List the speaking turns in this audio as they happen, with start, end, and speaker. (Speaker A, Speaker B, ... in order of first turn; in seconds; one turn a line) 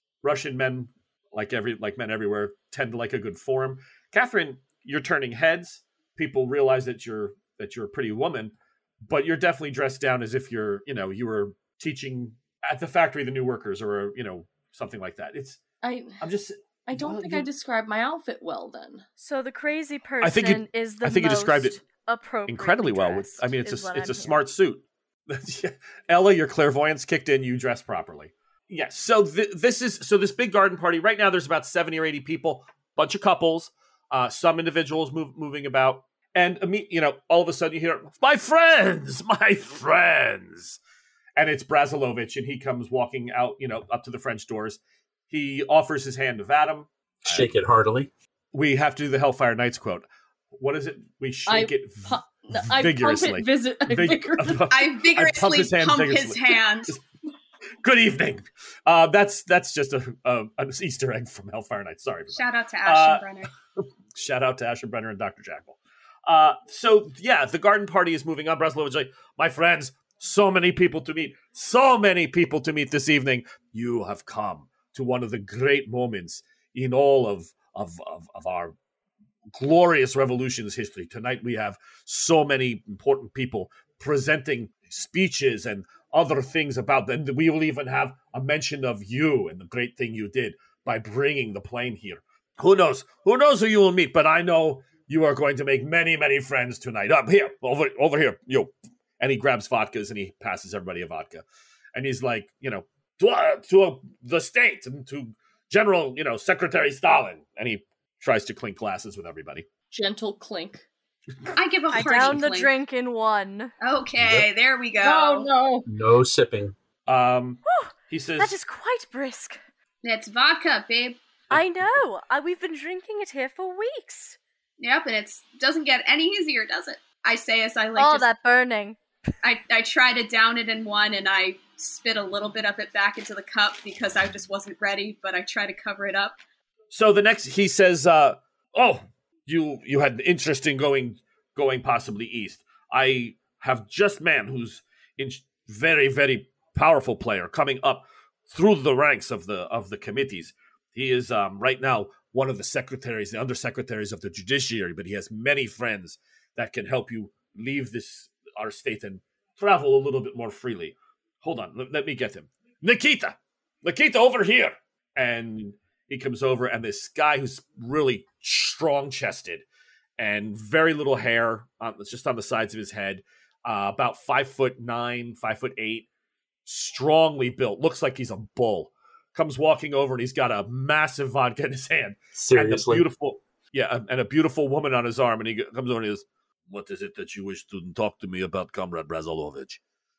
Speaker A: 0.2-8.5
Speaker A: 9.0-15.6
Speaker B: 15.8-16.2
Speaker A: 16.2-17.5
Speaker B: 16.9-19.0
Speaker C: 19.2-24.4
Speaker A: 20.2-21.8
Speaker A: 22.5-40.8
Speaker A: 41.4-47.5
Speaker D: 47.2-48.1
Speaker A: 48.5-57.0
Speaker B: 51.5-54.7
Speaker E: 54.7-57.0
Speaker A: 57.8-63.2
Speaker E: 62.4-63.5
Speaker A: 64.2-78.8
Speaker A: 79.5-109.7
Speaker B: 109.9-110.9
Speaker E: 111.5-112.7
Speaker C: 111.9-113.7
Speaker E: 113.8-115.5
Speaker B: 115.0-115.9
Speaker D: 115.9-116.8
Speaker A: 117.1-118.5
Speaker C: 117.7-119.6
Speaker E: 120.0-121.2
Speaker C: 121.5-124.4
Speaker E: 124.8-128.3
Speaker C: 128.0-129.0
Speaker E: 129.4-136.4
Speaker A: 136.9-169.7
Speaker A: 170.2-176.1
Speaker A: 176.7-189.8
Speaker D: 182.4-183.1